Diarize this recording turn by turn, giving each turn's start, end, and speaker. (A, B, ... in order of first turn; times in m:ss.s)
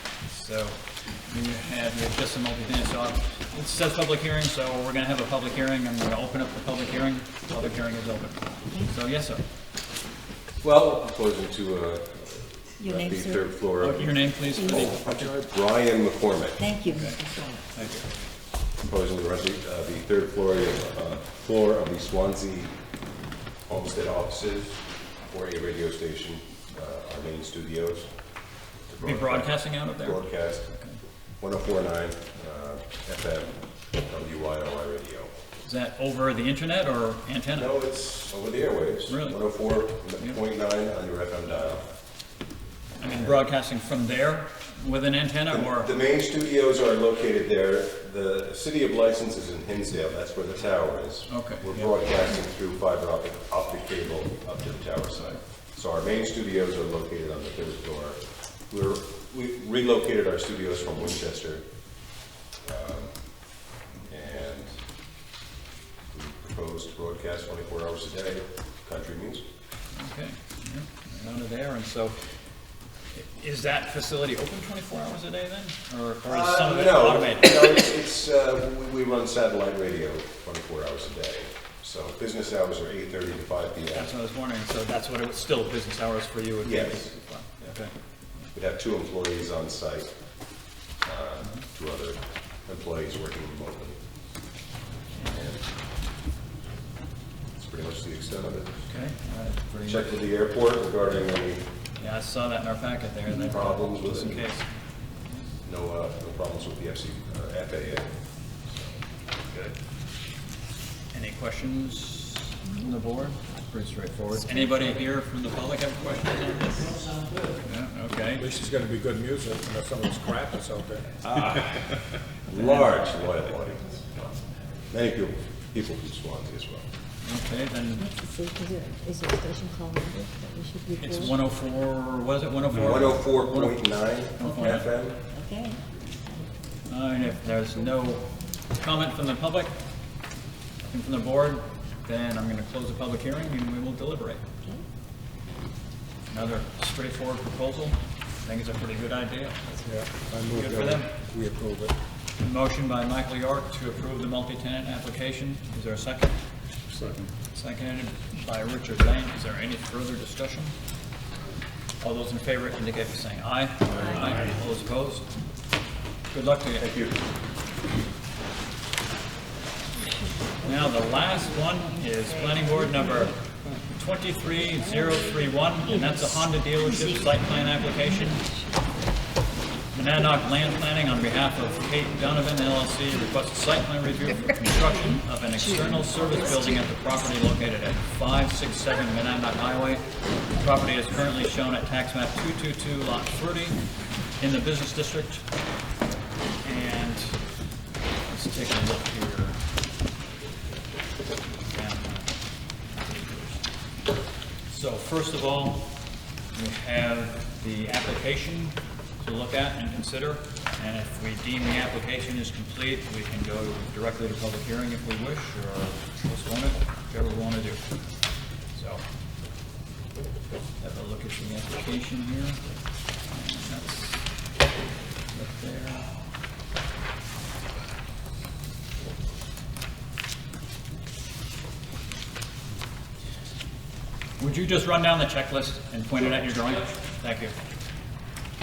0:00.2-0:09.4 A
0:10.6-0:16.6 B
0:12.8-0:13.4 C
0:13.8-0:15.3 A
0:14.5-0:14.9 C
0:16.6-0:17.6 C
0:16.9-0:18.1 A
0:18.8-0:22.7 B
0:23.7-0:28.1 B
0:28.9-0:30.7 B
0:29.0-0:31.0 A
0:31.4-0:35.3 B
0:35.6-0:37.7 A
0:37.6-0:41.8 B
0:39.1-0:39.6 A
0:43.0-0:45.9 A
0:43.1-0:43.4 B
0:45.5-1:01.6 B
0:51.3-0:51.9 A
1:02.6-1:03.2 B
1:04.0-1:04.8 B
1:06.1-1:09.4 B
1:09.9-1:12.2 A
1:13.1-1:17.7 A
1:16.3-1:24.1 B
1:23.9-1:27.9 A
1:26.6-1:27.1 B
1:28.5-1:30.1 B
1:31.0-1:34.0 B
1:35.2-1:35.6 B
1:37.6-1:38.8 B
1:38.9-1:40.1 A
1:39.9-1:41.7 B
1:42.0-1:44.7 A
1:43.4-1:44.4 B
1:45.6-1:48.1 B
1:48.6-1:49.0 B
1:51.1-1:57.1 A
1:57.6-1:58.5 A
1:58.4-2:01.2 D
2:01.2-2:01.8 B
2:02.5-2:04.1 B
2:02.5-2:03.0 A
2:04.9-2:06.9 B
2:07.2-2:08.1 A
2:08.0-2:11.3 C
2:10.9-2:14.9 A
2:12.8-2:15.2 B
2:14.4-2:15.8 C
2:16.9-2:19.8 A
2:20.8-2:24.4 A
2:26.3-2:31.1 A
2:29.8-2:31.9 D
2:32.4-2:36.4 A
2:36.9-2:37.3 D
2:37.5-2:40.7 A
2:42.0-2:45.2 A
2:46.3-2:46.9 A
2:46.8-2:47.1 B
2:50.0-2:53.5 C
2:50.6-2:58.4 A
2:54.6-2:58.9 C
2:59.9-3:13.8 A
3:05.6-3:06.7 C
3:14.4-3:15.4 A
3:16.6-3:17.4 A
3:18.3-3:19.6 A
3:21.7-3:22.4 A
3:22.9-3:23.6 A
3:24.7-3:25.9 A
3:26.5-3:37.8 A
3:38.7-3:39.0 A
3:40.8-3:42.6 A
3:43.3-3:44.2 A
3:45.3-3:46.1 A
3:54.4-3:57.6 A